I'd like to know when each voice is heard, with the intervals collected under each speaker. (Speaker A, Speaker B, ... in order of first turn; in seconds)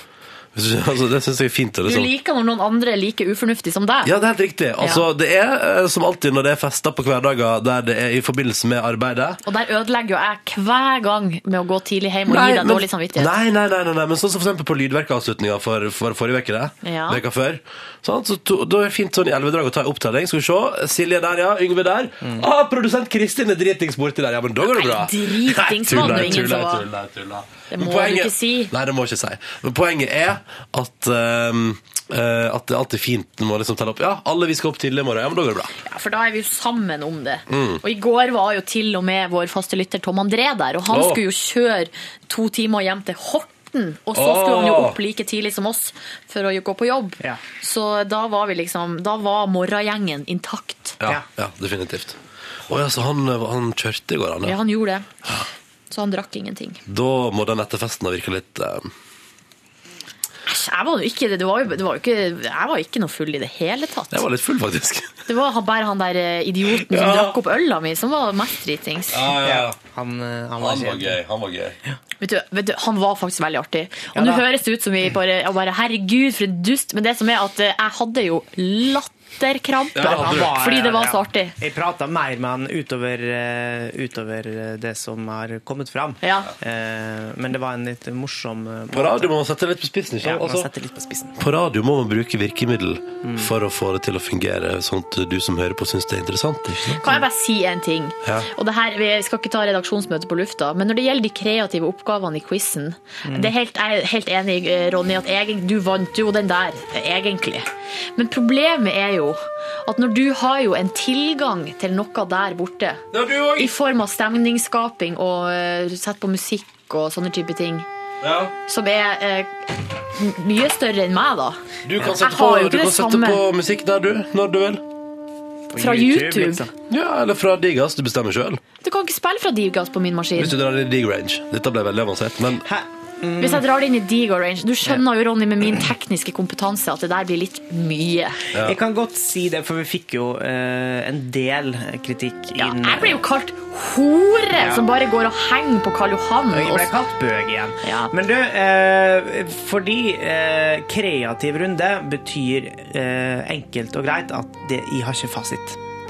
Speaker A: 0.6-2.1, 4.0-9.4, 12.3-35.7, 37.5-37.8, 40.9-41.2, 44.1-45.0, 51.0-54.6, 56.9-58.9, 64.1-65.1, 66.8-67.4, 69.1-69.7, 70.6-71.8, 79.9-80.5, 88.9-90.7, 91.4-97.1, 113.1-113.7, 118.2-118.5, 121.8-124.8, 126.9-128.6, 130.4-132.7, 138.5-138.8
Speaker B: 1.9-4.1, 4.8-5.0, 9.4-13.3, 16.8-17.2, 24.6-26.9, 27.7-28.7, 35.8-51.0, 54.4-55.1, 55.9-56.8, 60.5-64.2, 65.3-69.3, 72.2-81.6, 86.2-86.5, 97.0-113.0, 113.6-117.9, 118.7-123.4, 125.8-126.6, 128.8-130.6, 133.4-138.4, 142.6-146.9, 147.8-148.1
Speaker C: 69.4-71.2, 74.1-74.4, 80.0-89.3, 90.2-91.3, 93.2-93.5, 103.3-103.5, 125.7-126.7, 132.7-133.7, 138.6-143.2, 144.6-144.9, 146.5-155.8